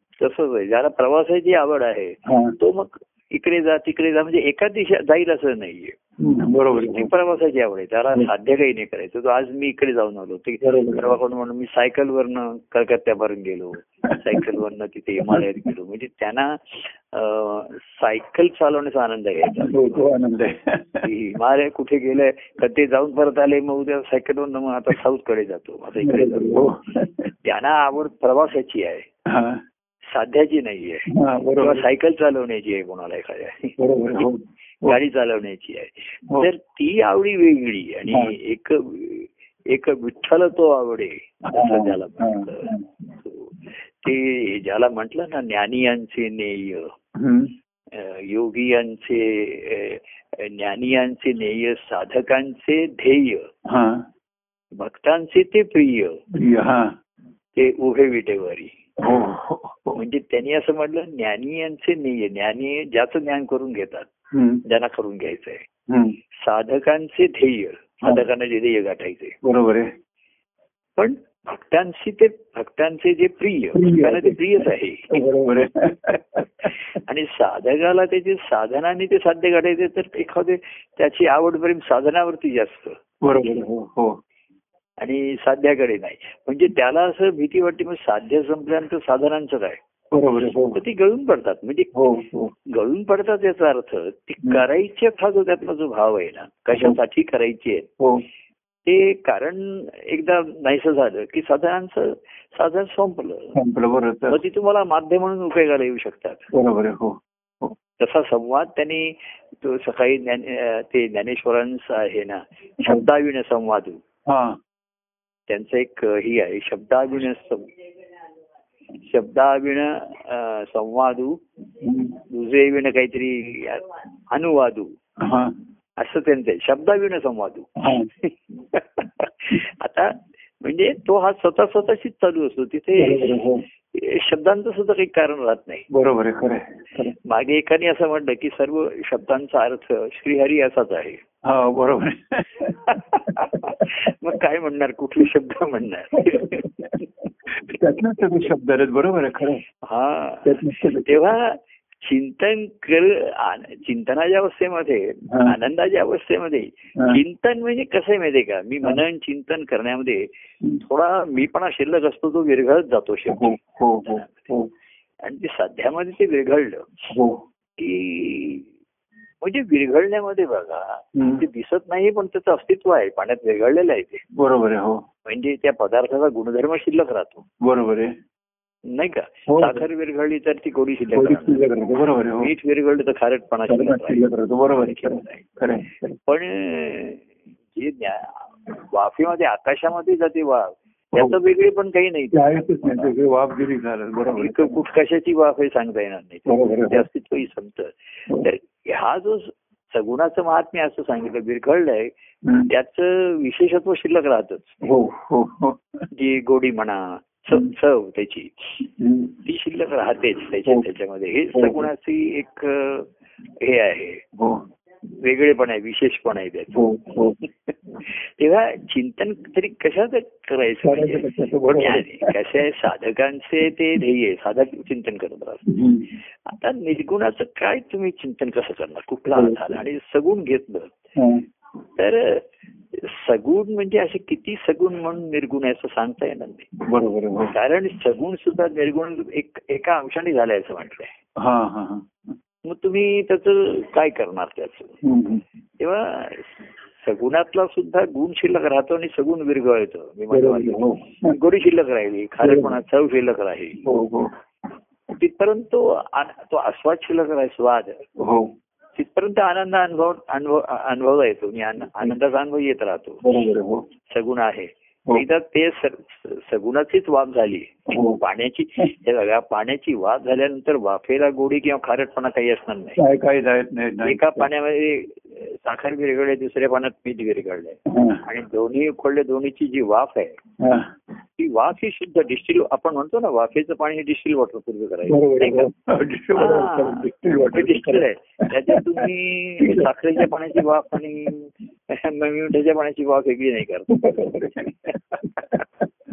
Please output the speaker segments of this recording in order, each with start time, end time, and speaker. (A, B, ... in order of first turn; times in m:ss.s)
0:00.2-0:06.0 A
0:02.2-0:02.5 B
0:06.2-0:07.1 B
0:06.7-0:20.1 A
0:10.6-0:11.2 B
0:14.0-0:14.5 B
0:15.2-0:15.7 B
0:19.6-0:21.1 B
0:21.0-0:26.6 A
0:26.0-0:27.3 B
0:27.4-0:29.1 A
0:29.3-0:29.6 B
0:30.1-0:31.0 A
0:31.1-0:31.9 B
0:31.6-0:34.2 A
0:33.8-0:35.0 B
0:34.8-0:46.9 A
0:38.1-0:38.4 B
0:41.5-0:43.1 B
0:47.2-0:47.5 B
0:47.9-0:53.5 A
0:53.6-0:54.0 B
0:54.8-0:56.2 A
0:56.3-0:56.9 B
0:57.5-0:58.7 A
0:59.0-1:00.0 B
0:59.9-1:04.1 A
1:04.3-1:04.6 B
1:04.6-1:05.6 A
1:05.9-1:06.2 B
1:06.4-1:09.4 A
1:09.4-1:09.9 B
1:11.0-1:15.1 A
1:13.7-1:16.7 B
1:16.8-1:23.0 A
1:23.2-1:24.1 B
1:25.0-1:29.8 A
1:30.1-1:30.8 B
1:30.4-1:31.9 A
1:31.9-1:32.5 B
1:32.7-1:37.9 A
1:38.8-1:43.5 A
1:43.5-1:44.4 B
1:44.3-1:46.5 A
1:46.5-1:47.7 B
1:48.0-1:54.0 A
1:54.3-1:54.6 B
1:55.5-1:57.7 A
1:59.0-2:01.4 A
2:01.8-2:02.2 B
2:02.3-2:04.9 A
2:05.2-2:05.5 B
2:06.0-2:13.4 A
2:07.8-2:08.1 B
2:13.0-2:13.6 B
2:13.9-2:15.9 A
2:15.9-2:17.1 B
2:17.1-2:21.2 A
2:21.4-2:23.8 B
2:22.8-2:27.0 A
2:26.2-2:29.6 B
2:29.8-2:40.3 A
2:30.4-2:31.3 B
2:35.3-2:35.6 B
2:40.8-2:44.5 A
2:43.3-2:44.7 B
2:45.2-2:46.9 A
2:47.1-2:47.4 B
2:47.8-2:48.7 A
2:49.4-2:54.2 A
2:51.2-2:51.4 B
2:54.4-2:55.0 B
2:55.2-2:57.4 A
2:57.6-2:58.1 B
2:58.9-3:01.6 A
2:59.5-2:59.9 B
3:01.1-3:02.5 B
3:02.4-3:04.2 A
3:03.7-3:06.2 B
3:04.8-3:05.5 A
3:06.2-3:13.1 A
3:12.3-3:14.8 B
3:14.3-3:22.1 A
3:16.5-3:17.1 B
3:22.4-3:22.7 B
3:22.6-3:24.8 A
3:24.8-3:25.8 B
3:26.1-3:28.8 A
3:29.0-3:29.4 B
3:29.4-3:33.1 A
3:31.5-3:31.9 B
3:33.6-3:34.2 A
3:34.4-3:34.6 B
3:35.2-3:36.8 A
3:36.7-3:37.4 B
3:37.7-3:45.6 A
3:40.8-3:42.3 B
3:45.7-3:46.1 B
3:46.4-3:50.9 A
3:49.3-3:49.8 B
3:51.2-3:51.4 B
3:52.0-3:56.7 A
3:56.8-3:57.5 B
3:57.5-4:01.1 A
4:01.4-4:02.3 B
4:02.7-4:04.9 A
4:05.0-4:05.4 B
4:05.8-4:13.8 A
4:10.3-4:11.4 B
4:12.4-4:12.8 B
4:13.8-4:14.3 B
4:15.1-4:18.0 A
4:18.2-4:18.5 B
4:19.0-4:23.2 A
4:23.2-4:23.8 B
4:24.1-4:33.0 A
4:27.9-4:28.2 B
4:33.0-4:34.5 B
4:34.0-4:40.4 A
4:37.9-4:38.2 B
4:40.6-4:40.9 B
4:41.4-4:45.7 A
4:45.1-4:49.1 B
4:46.3-4:54.4 A
4:49.6-4:50.7 B
4:53.9-4:55.8 B